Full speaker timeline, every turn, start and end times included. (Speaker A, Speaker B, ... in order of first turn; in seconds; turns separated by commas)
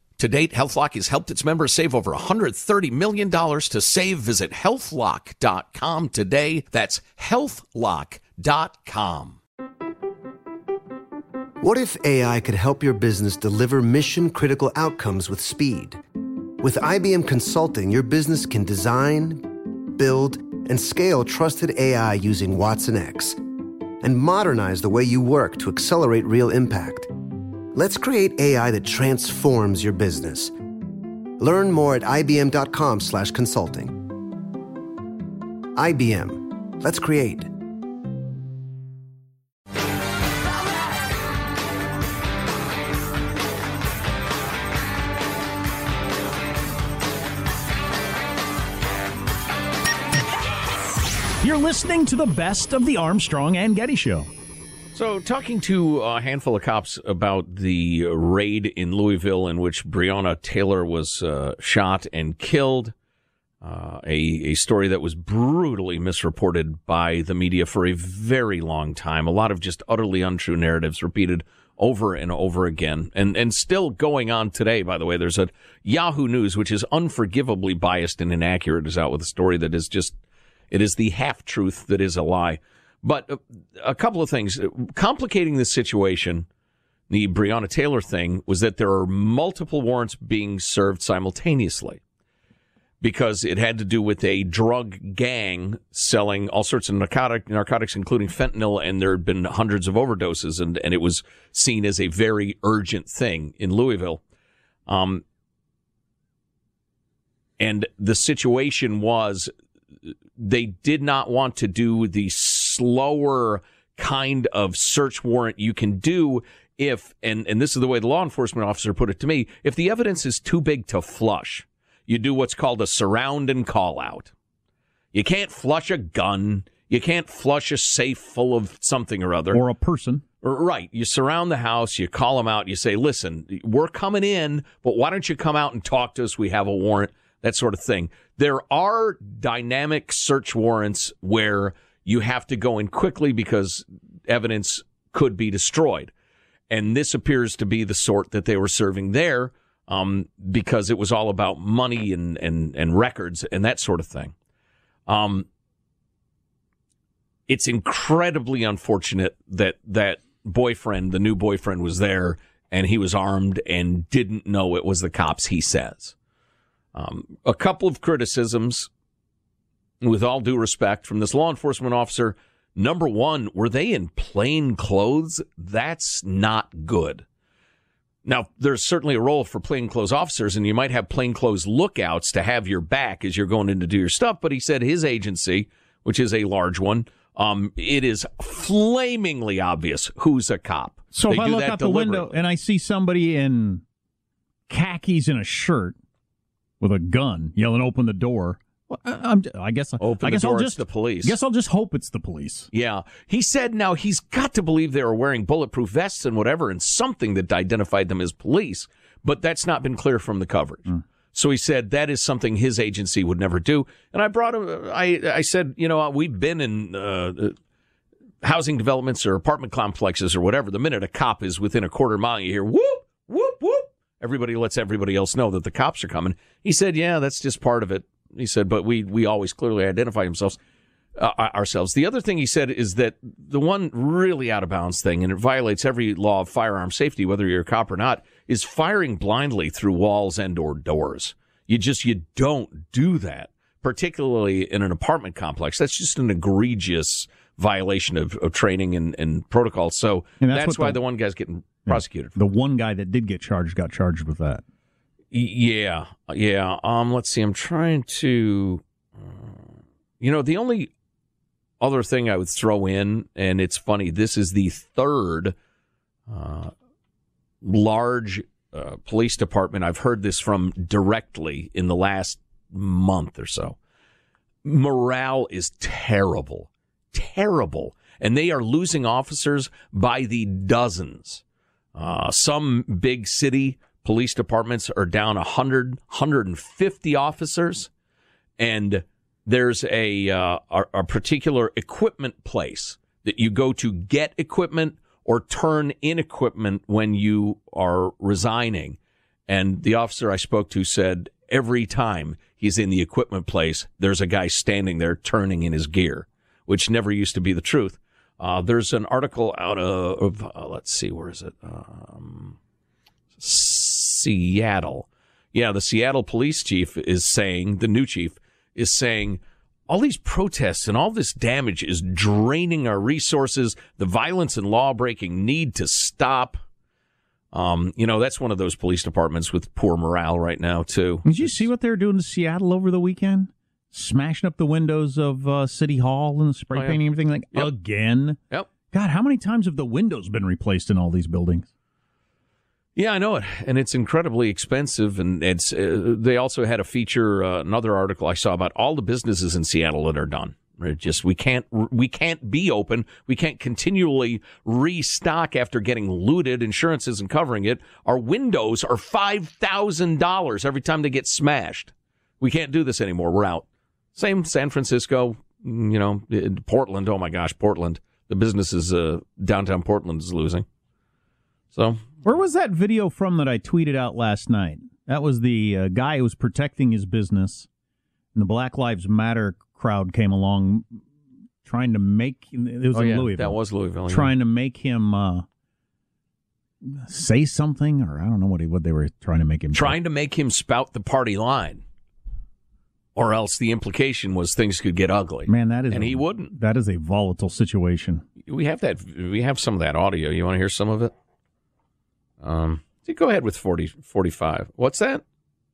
Speaker A: 0.2-9.4, Speaker B: 11.6-16.0, Speaker B: 16.6-23.4, Speaker B: 24.0-27.1, Speaker B: 27.7-30.5, Speaker B: 31.4-34.0, Speaker B: 35.7-37.5, Speaker C: 51.4-54.3, Speaker A: 54.9-62.9, Speaker A: 63.6-80.2, Speaker A: 80.7-86.5, Speaker A: 87.1-92.0, Speaker A: 93.0-104.2, Speaker A: 104.9-105.2, Speaker A: 107.6-109.5, Speaker A: 110.4-124.3, Speaker A: 125.1-129.6, Speaker C: 129.5-130.2, Speaker A: 130.4-146.1, Speaker A: 146.7-154.3, Speaker A: 155.1-155.5, Speaker A: 157.5-166.2, Speaker A: 166.9-168.9, Speaker A: 170.0-177.2, Speaker A: 178.2-192.3, Speaker C: 191.1-193.8, Speaker C: 194.7-196.0, Speaker C: 196.8-202.7, Speaker A: 200.0-201.4, Speaker A: 202.7-217.6, Speaker A: 218.4-230.6, Speaker A: 231.2-252.4, Speaker C: 250.4-251.0, Speaker C: 251.9-254.6, Speaker A: 255.3-259.7, Speaker A: 260.2-260.9, Speaker A: 261.8-265.5, Speaker A: 266.3-266.7, Speaker A: 267.6-273.8, Speaker A: 274.6-281.4, Speaker A: 281.9-287.9, Speaker A: 288.6-312.6, Speaker A: 313.4-326.6, Speaker A: 327.5-331.7, Speaker C: 331.2-338.4, Speaker A: 336.7-337.0, Speaker C: 338.9-341.7, Speaker A: 342.9-370.6, Speaker A: 371.7-372.0, Speaker C: 372.2-377.7, Speaker C: 378.3-381.0, Speaker C: 381.6-385.4, Speaker A: 382.9-384.3, Speaker C: 386.8-390.0, Speaker A: 389.7-391.8, Speaker A: 393.1-396.5, Speaker C: 395.5-398.2, Speaker A: 398.4-401.1, Speaker A: 402.4-405.2